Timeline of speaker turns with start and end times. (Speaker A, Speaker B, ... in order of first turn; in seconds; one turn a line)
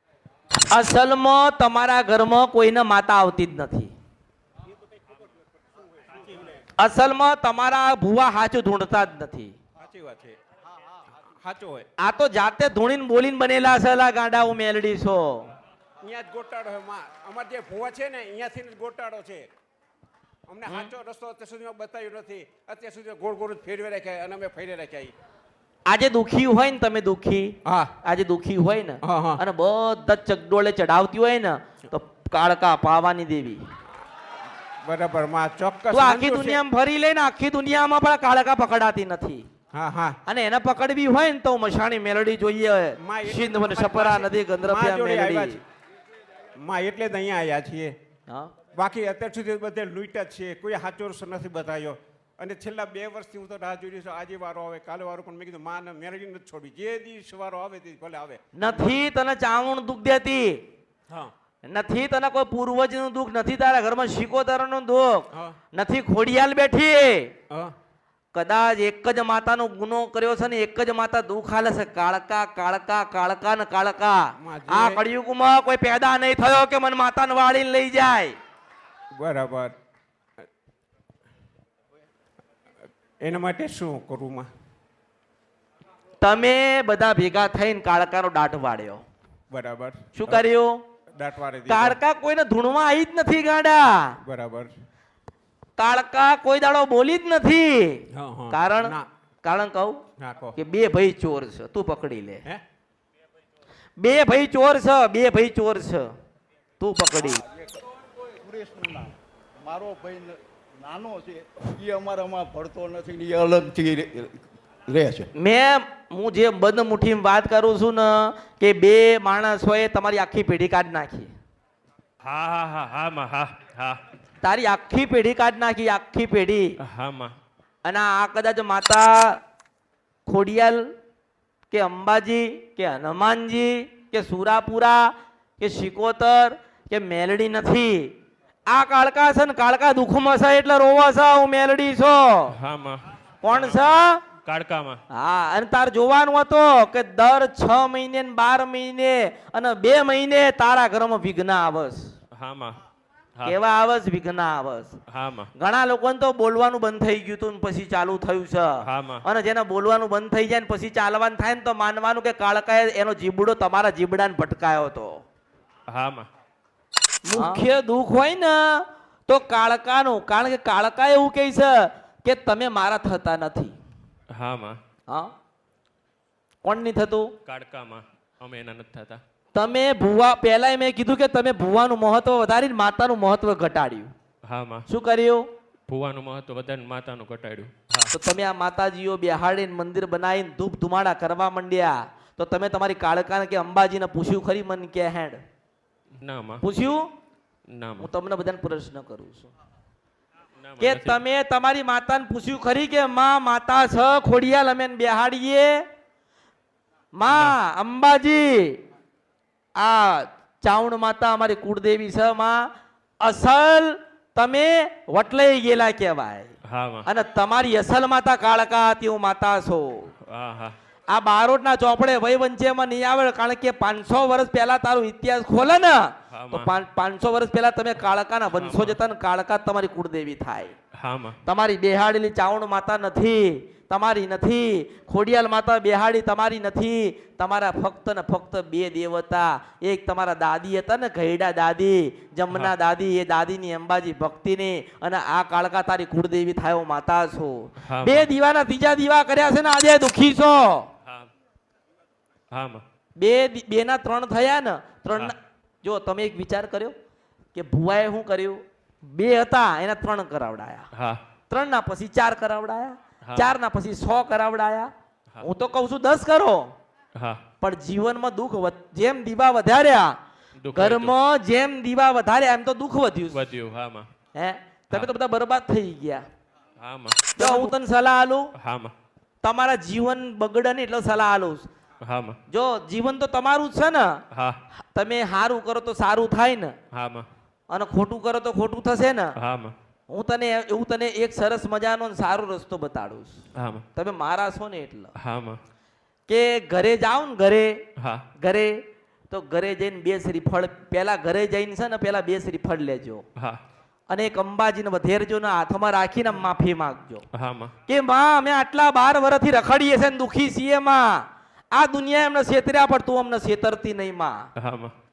Speaker A: 0.7-3.9
Speaker A: 6.8-9.6
Speaker B: 9.8-10.4
Speaker B: 11.3-11.9
Speaker A: 12.0-15.5
Speaker B: 16.0-19.5
Speaker B: 20.5-25.1
Speaker A: 20.6-20.9
Speaker A: 25.9-33.6
Speaker B: 27.6-27.9
Speaker B: 29.0-29.4
Speaker B: 34.8-36.6
Speaker A: 35.9-39.4
Speaker B: 39.7-40.2
Speaker A: 40.2-45.6
Speaker B: 43.0-45.6
Speaker B: 46.5-48.0
Speaker B: 48.7-58.9
Speaker A: 58.5-60.6
Speaker A: 61.6-67.3
Speaker A: 68.3-78.3
Speaker B: 74.4-75.0
Speaker B: 79.1-79.7
Speaker B: 83.2-84.5
Speaker A: 86.2-89.0
Speaker B: 89.5-90.4
Speaker A: 90.1-90.8
Speaker B: 91.1-92.0
Speaker A: 91.7-94.2
Speaker B: 94.2-94.7
Speaker A: 95.8-100.0
Speaker B: 98.1-99.1
Speaker B: 100.2-100.5
Speaker A: 100.5-102.4
Speaker A: 104.0-106.1
Speaker A: 106.8-107.4
Speaker C: 107.3-107.8
Speaker C: 108.4-115.3
Speaker A: 115.3-121.3
Speaker D: 122.2-124.0
Speaker A: 124.4-126.7
Speaker D: 126.8-127.3
Speaker A: 127.8-129.4
Speaker A: 130.2-130.9
Speaker A: 131.7-138.1
Speaker A: 138.7-142.5
Speaker D: 142.5-143.9
Speaker A: 143.4-144.2
Speaker D: 144.4-145.0
Speaker A: 145.1-152.1
Speaker D: 152.3-152.8
Speaker A: 153.4-154.9
Speaker D: 155.1-155.5
Speaker A: 155.6-165.2
Speaker D: 158.8-159.2
Speaker D: 165.9-166.3
Speaker A: 167.3-173.7
Speaker D: 174.3-174.8
Speaker A: 176.6-177.3
Speaker D: 177.4-179.2
Speaker A: 179.5-184.1
Speaker D: 184.4-184.8
Speaker A: 184.9-185.4
Speaker D: 185.9-188.1
Speaker A: 188.1-195.4
Speaker D: 196.2-196.6
Speaker A: 196.6-197.1
Speaker D: 197.7-198.1
Speaker A: 198.0-199.5
Speaker D: 200.6-201.2
Speaker A: 200.8-205.8
Speaker A: 207.1-208.8
Speaker D: 207.3-207.6
Speaker A: 209.8-216.5
Speaker D: 216.6-217.1
Speaker A: 217.0-220.1
Speaker D: 220.3-220.8
Speaker A: 221.1-230.7
Speaker D: 226.3-226.7
Speaker D: 228.5-228.9
Speaker D: 230.9-231.4
Speaker A: 231.4-250.9
Speaker D: 247.8-248.3
Speaker D: 252.5-252.8
Speaker A: 253.2-256.9
Speaker A: 257.5-260.9
Speaker D: 260.9-261.2
Speaker A: 261.5-266.7
Speaker D: 263.2-263.5
Speaker D: 267.1-267.4
Speaker A: 267.6-270.2
Speaker D: 270.6-271.1
Speaker A: 270.7-273.4
Speaker D: 273.3-274.1
Speaker A: 274.3-276.2
Speaker D: 276.8-277.7
Speaker A: 277.3-278.5
Speaker D: 278.6-278.9
Speaker A: 279.4-281.7
Speaker D: 282.0-282.4
Speaker A: 282.5-284.2
Speaker D: 284.3-284.6
Speaker A: 284.9-286.8
Speaker D: 286.9-287.3
Speaker A: 287.7-289.3
Speaker D: 289.4-289.7
Speaker A: 290.1-293.4
Speaker D: 293.6-293.8
Speaker A: 293.9-295.1
Speaker D: 295.2-295.6
Speaker A: 296.3-297.8
Speaker D: 298.0-298.2
Speaker A: 298.4-303.2
Speaker A: 304.1-307.2
Speaker D: 307.3-307.7
Speaker A: 307.9-314.4
Speaker D: 314.6-314.9